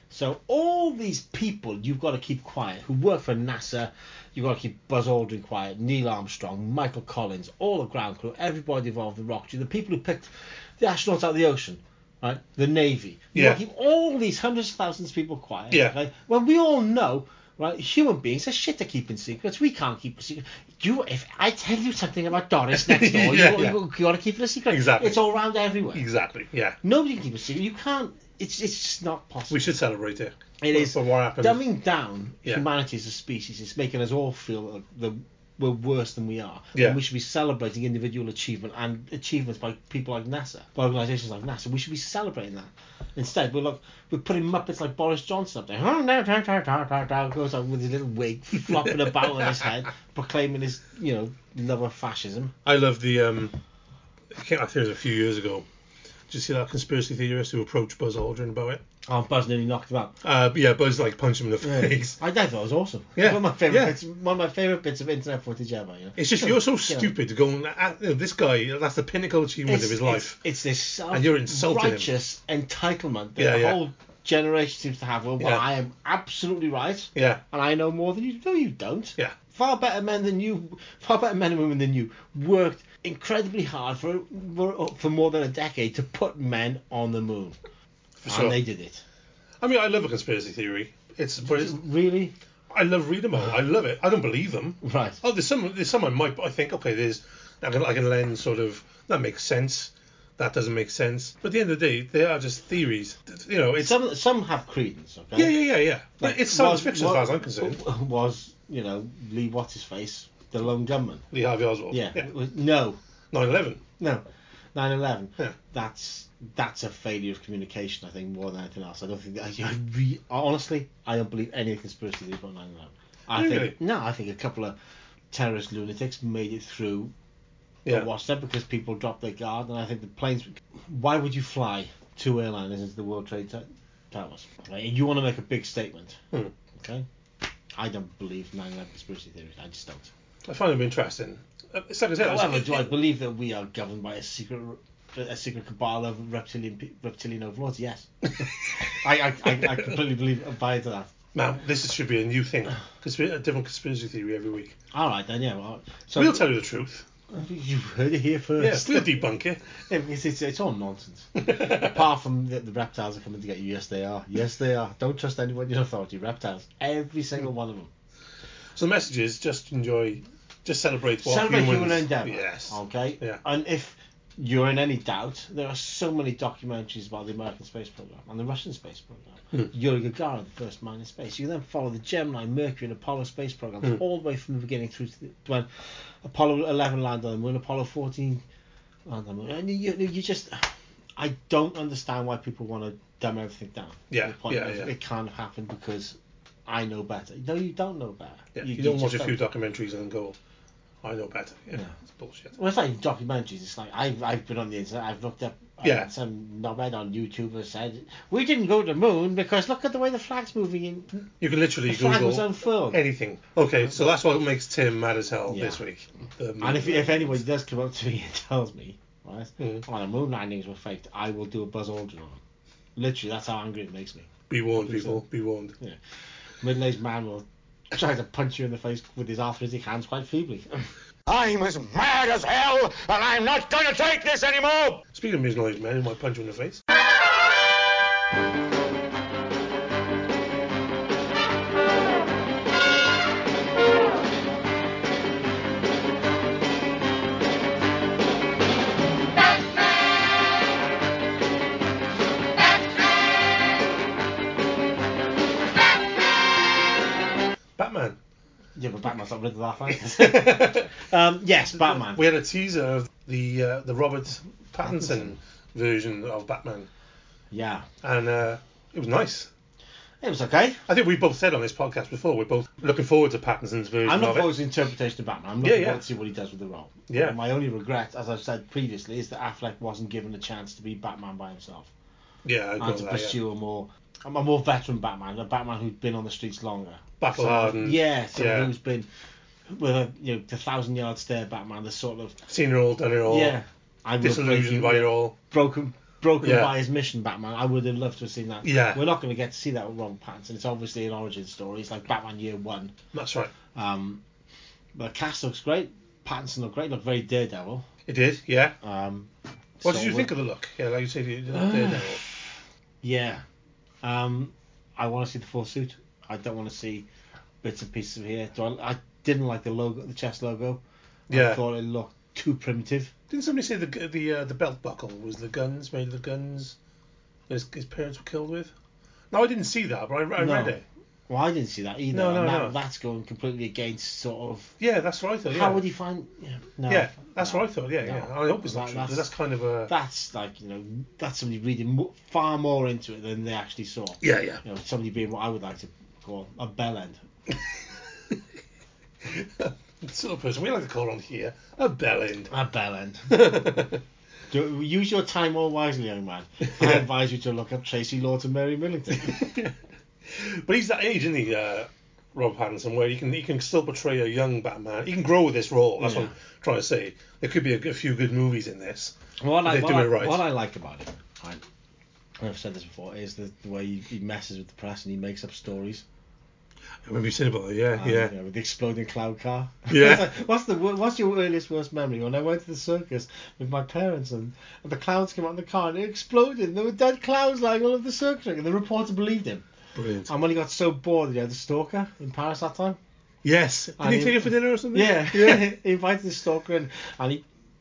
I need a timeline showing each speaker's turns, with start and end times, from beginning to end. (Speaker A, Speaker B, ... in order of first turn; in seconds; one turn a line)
Speaker A: 0.1-26.1
Speaker B: 13.3-13.6
Speaker B: 15.7-16.0
Speaker B: 22.7-23.8
Speaker B: 24.7-25.3
Speaker B: 25.9-26.8
Speaker A: 26.8-29.6
Speaker B: 29.5-31.6
Speaker A: 30.6-52.5
Speaker B: 36.7-37.0
Speaker B: 52.6-53.5
Speaker B: 54.3-55.6
Speaker B: 56.3-58.8
Speaker A: 59.1-60.1
Speaker B: 60.2-62.2
Speaker A: 61.6-67.1
Speaker B: 63.2-64.0
Speaker B: 66.2-70.4
Speaker A: 69.7-87.6
Speaker B: 71.1-72.1
Speaker B: 73.4-73.8
Speaker B: 75.4-75.7
Speaker B: 77.2-77.4
Speaker B: 88.2-88.6
Speaker A: 88.3-89.0
Speaker B: 89.6-91.8
Speaker A: 91.4-92.3
Speaker B: 92.7-104.0
Speaker A: 94.8-95.2
Speaker A: 103.8-111.3
Speaker B: 105.4-107.8
Speaker B: 111.3-112.3
Speaker A: 111.9-113.0
Speaker B: 113.3-113.8
Speaker A: 114.0-124.8
Speaker B: 123.3-123.8
Speaker A: 125.3-127.1
Speaker A: 127.9-136.2
Speaker A: 136.8-137.1
Speaker A: 137.7-140.1
Speaker B: 140.4-142.9
Speaker A: 142.2-151.1
Speaker B: 151.3-154.8
Speaker A: 154.9-156.5
Speaker B: 156.2-157.0
Speaker A: 157.3-159.2
Speaker B: 158.6-159.6
Speaker A: 159.9-167.9
Speaker B: 161.4-161.9
Speaker B: 168.8-173.4
Speaker A: 171.2-185.7
Speaker A: 186.2-188.4
Speaker A: 189.1-199.4
Speaker B: 194.1-194.9
Speaker B: 198.6-200.4
Speaker B: 201.0-202.6
Speaker A: 202.5-211.3
Speaker B: 205.8-206.1
Speaker B: 211.4-217.4
Speaker A: 211.8-213.0
Speaker A: 215.5-215.8
Speaker A: 216.6-222.4
Speaker B: 219.6-219.8
Speaker A: 223.0-225.2
Speaker B: 224.5-225.7
Speaker A: 226.6-230.9
Speaker C: 231.3-235.0
Speaker B: 235.2-236.8
Speaker B: 257.8-258.2
Speaker A: 258.8-262.2
Speaker B: 260.2-260.9
Speaker B: 261.8-266.9
Speaker A: 264.8-265.4
Speaker A: 267.5-267.9
Speaker B: 268.0-269.5
Speaker A: 270.2-270.8
Speaker B: 270.9-274.5
Speaker A: 274.0-281.9
Speaker B: 275.6-276.0
Speaker B: 277.1-277.4
Speaker B: 282.4-283.4
Speaker A: 282.8-289.1
Speaker B: 287.2-288.7
Speaker A: 289.7-292.4
Speaker B: 292.5-293.6
Speaker A: 293.3-302.9
Speaker B: 294.2-295.4
Speaker B: 296.4-296.8
Speaker B: 298.6-299.0
Speaker B: 303.1-303.5
Speaker A: 303.7-304.2
Speaker A: 304.9-307.9
Speaker B: 308.1-308.8
Speaker A: 308.8-310.3
Speaker B: 309.8-312.2
Speaker A: 311.5-312.5
Speaker A: 313.0-313.4
Speaker A: 314.0-317.1
Speaker A: 317.6-323.1
Speaker B: 321.3-321.6
Speaker B: 323.3-326.8
Speaker B: 327.5-328.7
Speaker B: 329.3-330.8
Speaker A: 330.4-334.8
Speaker B: 332.1-332.8
Speaker B: 334.8-335.8
Speaker A: 335.5-339.3
Speaker B: 336.9-339.9
Speaker A: 339.9-347.2
Speaker B: 344.2-344.6
Speaker B: 349.3-352.5
Speaker A: 352.5-353.9
Speaker B: 353.3-354.0
Speaker A: 354.5-359.5
Speaker B: 359.3-359.7
Speaker B: 360.3-370.4
Speaker A: 366.0-366.3
Speaker A: 369.4-371.6
Speaker A: 372.4-376.0
Speaker B: 377.1-378.3
Speaker A: 378.0-389.7
Speaker B: 379.9-380.3
Speaker B: 390.0-390.3
Speaker A: 390.2-393.0
Speaker B: 393.4-395.7
Speaker A: 394.0-397.4